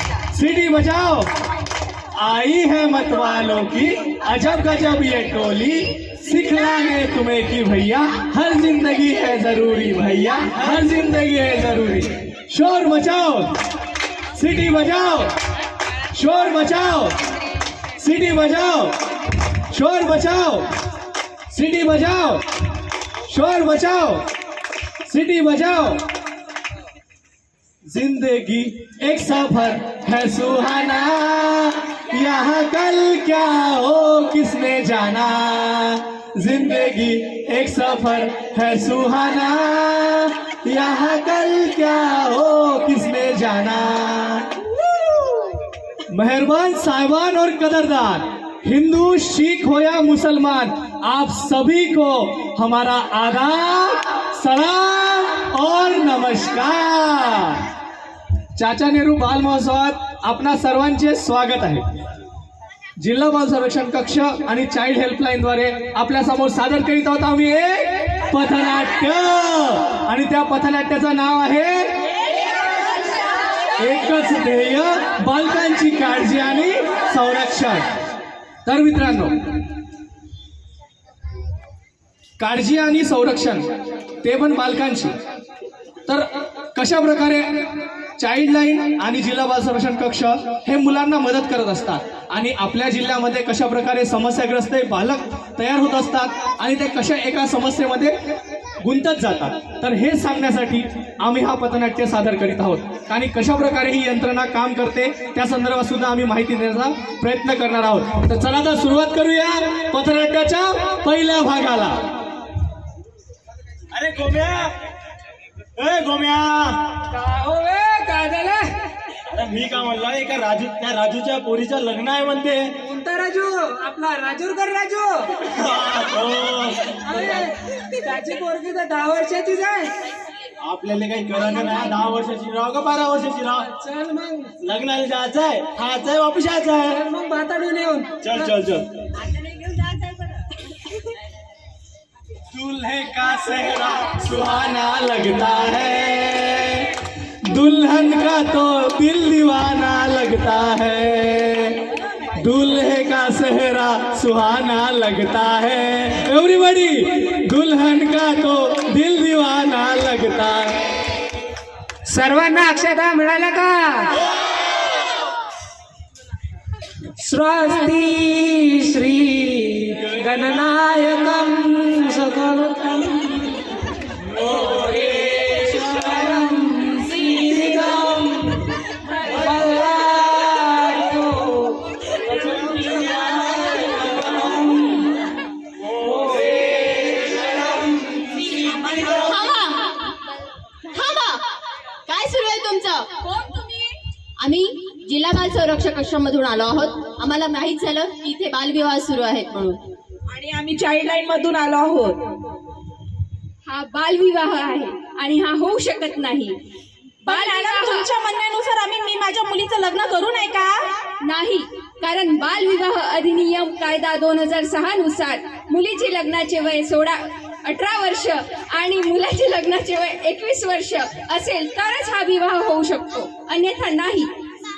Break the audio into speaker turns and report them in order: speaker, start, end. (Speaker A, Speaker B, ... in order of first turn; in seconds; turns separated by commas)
Speaker A: 0.3-1.3, Speaker A: 2.1-13.5, Speaker A: 14.3-15.3, Speaker A: 16.1-17.1, Speaker A: 17.9-18.9, Speaker A: 19.7-20.7, Speaker A: 21.5-22.4, Speaker A: 23.3-24.2, Speaker A: 25.1-26.0, Speaker A: 27.9-44.7, Speaker A: 46.1-57.6, Speaker A: 58.5-61.8, Speaker A: 63.0-72.0, Speaker A: 73.8-77.8, Speaker A: 78.7-79.4, Speaker A: 82.4-83.7, Speaker A: 84.2-85.1, Speaker A: 86.1-98.2, Speaker A: 98.8-112.0, Speaker B: 113.9-114.7, Speaker B: 115.8-116.9, Speaker C: 117.1-118.7, Speaker B: 119.3-122.7, Speaker C: 122.8-125.3, Speaker B: 125.4-127.0, Speaker C: 127.0-129.9, Speaker B: 130.6-133.7, Speaker C: 133.7-134.5, Speaker B: 134.6-137.0, Speaker C: 136.9-138.5, Speaker B: 138.2-138.9, Speaker C: 139.6-140.1, Speaker A: 142.5-146.9, Speaker A: 147.4-160.8, Speaker C: 162.1-164.2, Speaker C: 167.2-173.6, Speaker C: 174.5-185.1, Speaker C: 186.1-187.2, Speaker D: 189.0-189.9, Speaker D: 190.9-191.4, Speaker D: 192.1-193.7, Speaker D: 194.4-199.8, Speaker E: 200.3-202.2, Speaker F: 203.7-206.6, Speaker E: 207.2-210.8, Speaker F: 207.2-208.1, Speaker F: 211.2-224.3